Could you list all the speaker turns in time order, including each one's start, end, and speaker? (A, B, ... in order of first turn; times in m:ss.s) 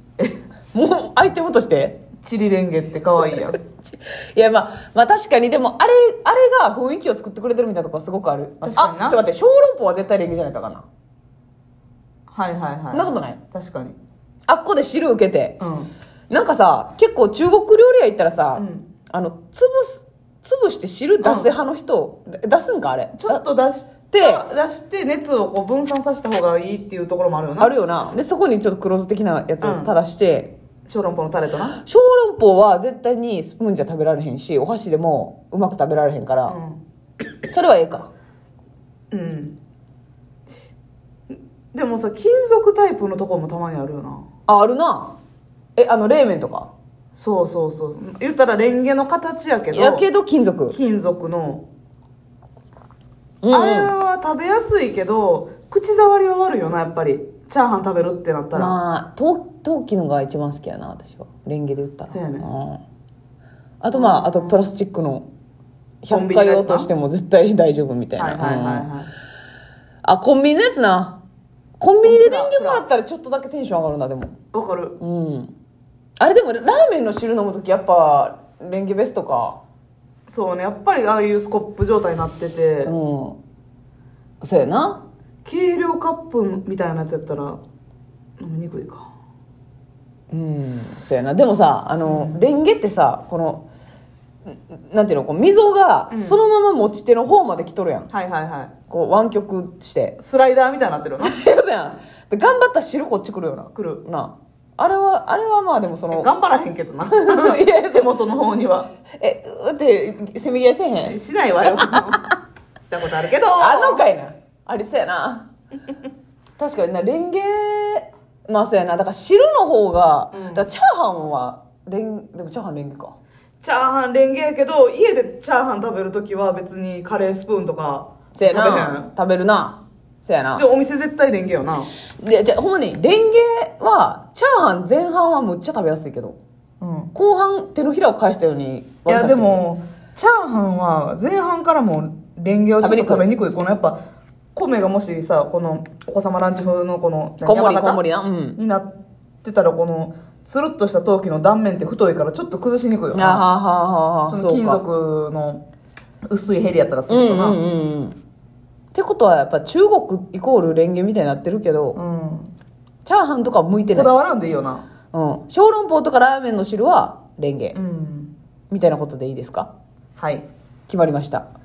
0:00.7-0:02.0 A
0:02.2-0:03.6 B
0:03.4-0:10.8 A
0:08.6-0:09.2 B
0:12.3-0:14.0 B
0:12.9-0:13.4 A
0:14.5-0:15.6 A
0:15.6-0:15.9 B
0:16.3-0:23.4 A
0:18.6-0:18.9 B
0:21.2-0:21.5 B
0:23.1-0:27.7 B
0:24.1-0:24.4 A
0:27.6-0:30.5 A
0:29.6-0:29.9 B
0:30.9-0:31.8 B
0:31.8-0:36.6 A
0:36.5-0:36.8 B
0:37.5-0:38.1 A
0:39.1-0:39.6 B
0:41.3-0:44.3 B
0:44.5-0:45.2 A
0:45.8-0:46.7 A
0:47.1-0:50.0 B
0:49.7-0:50.8 A
0:50.7-0:51.6 B
0:53.4-0:53.9 A
0:53.5-0:58.8 B
0:58.5-1:02.8 A
1:02.1-1:02.5 B
1:03.8-1:05.3 A
1:03.9-1:04.6 B
1:06.0-1:08.9 A
1:06.1-1:06.9 B
1:08.2-1:09.1 B
1:10.0-1:11.2 A
1:11.8-1:14.4 A
1:12.0-1:12.8 B
1:14.5-1:15.0 B
1:15.0-1:15.5 A
1:16.2-1:19.6 A
1:20.3-1:22.9 B
1:22.8-1:23.4 A
1:24.4-1:25.0 A
1:25.4-1:27.6 B
1:28.4-1:29.1 B
1:30.3-1:33.7 A
1:32.0-1:32.4 B
1:34.5-1:38.1 A
1:36.1-1:36.4 B
1:38.1-1:38.7 B
1:38.9-1:40.2 A
1:40.2-1:41.4 B
1:41.2-1:46.3 A
1:43.7-1:44.0 B
1:46.1-1:48.9 B
1:47.1-1:48.1 A
1:49.1-1:51.2 A
1:51.0-1:52.3 B
1:52.9-1:54.0 B
1:53.6-1:55.5 A
1:56.6-2:03.2 A
2:00.3-2:00.6 B
2:03.6-2:09.1 B
2:08.3-2:10.6 A
2:10.6-2:11.9 B
2:12.2-2:16.4 A
2:16.8-2:17.1 B
2:17.1-2:19.6 A
2:19.1-2:24.0 B
2:22.8-2:23.3 A
2:24.6-2:28.0 B
2:27.4-2:28.6 A
2:28.6-2:28.9 B
2:29.4-2:33.5 B
2:33.1-2:34.8 A
2:34.3-2:35.6 B
2:36.3-2:37.6 B
2:37.1-2:38.2 A
2:38.9-2:42.0 A
2:42.0-2:42.5 B
2:43.0-2:44.1 A
2:43.9-2:44.8 B
2:45.1-2:47.8 A
2:47.7-2:48.3 B
2:48.7-2:49.7 A
2:50.2-2:50.4 B
2:50.9-2:51.4 A